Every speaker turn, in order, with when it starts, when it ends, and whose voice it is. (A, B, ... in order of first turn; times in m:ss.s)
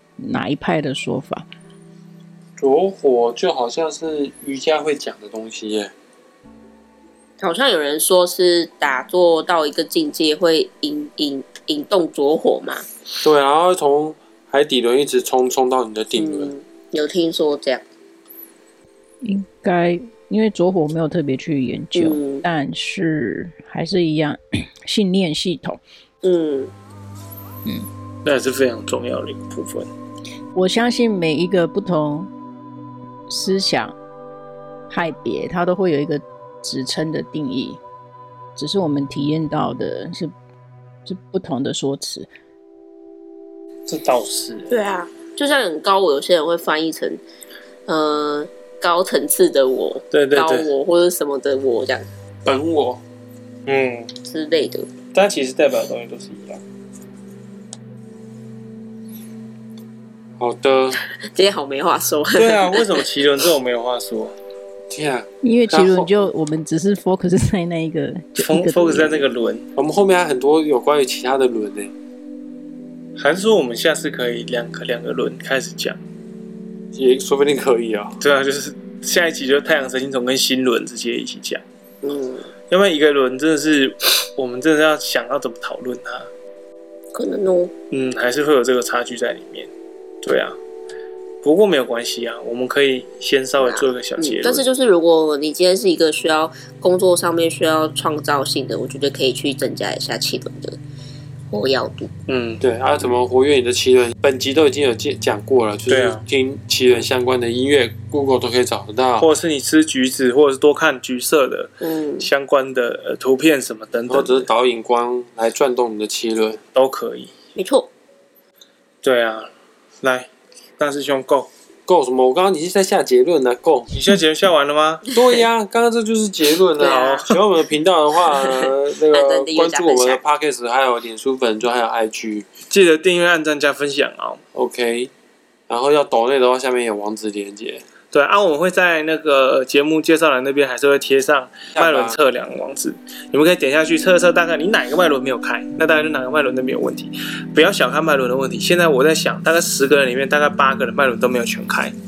0:00.2-0:01.4 A
0:02.6-0:05.9 B
0:07.4-0:12.9 C
0:13.2-0:16.5 B
0:16.2-0:17.8 C
0:19.2-0:25.8 A
0:22.0-0:22.4 C
0:26.2-0:26.7 C
0:28.2-0:29.9 D
0:30.6-0:32.3 A
0:33.3-0:34.0 A
0:34.9-0:37.8 A
0:38.6-0:40.3 A
0:41.1-0:42.3 A
0:43.9-0:44.7 D
0:44.7-0:47.2 C
0:47.9-0:52.1 C
0:50.1-0:50.7 D
0:52.5-0:53.0 B
0:53.7-0:54.1 D
0:54.2-0:54.9 C
0:55.1-0:56.6 D
1:00.4-1:01.0 B
1:01.2-1:03.0 C
1:02.3-1:04.3 D
1:04.9-1:06.1 B
1:05.4-1:09.3 A
1:08.4-1:09.7 D
1:09.8-1:11.9 B
1:13.2-1:16.0 D
1:16.9-1:18.2 B
1:18.2-1:21.6 D
1:22.0-1:22.5 C
1:22.7-1:26.3 D
1:27.1-1:27.7 C
1:27.9-1:29.7 D
1:30.2-1:30.6 D
1:31.4-1:34.6 D
1:33.6-1:40.8 C
1:41.5-1:42.1 C
1:42.3-1:42.6 D
1:42.6-1:49.3 B
1:45.9-1:46.2 D
1:49.2-1:54.5 D
1:51.8-1:52.3 C
1:54.1-1:56.6 B
1:56.7-1:57.3 D
1:57.6-1:57.9 C
1:59.0-1:59.5 D
2:00.0-2:00.3 D
2:00.8-2:01.5 D
2:01.9-2:03.9 B
2:03.9-2:05.1 D
2:05.1-2:12.5 B
2:06.8-2:07.4 C
2:06.8-2:07.3 D
2:08.4-2:10.2 C
2:12.7-2:14.4 D
2:14.5-2:15.1 B
2:15.7-2:17.8 B
2:18.1-2:31.9 D
2:21.7-2:22.2 B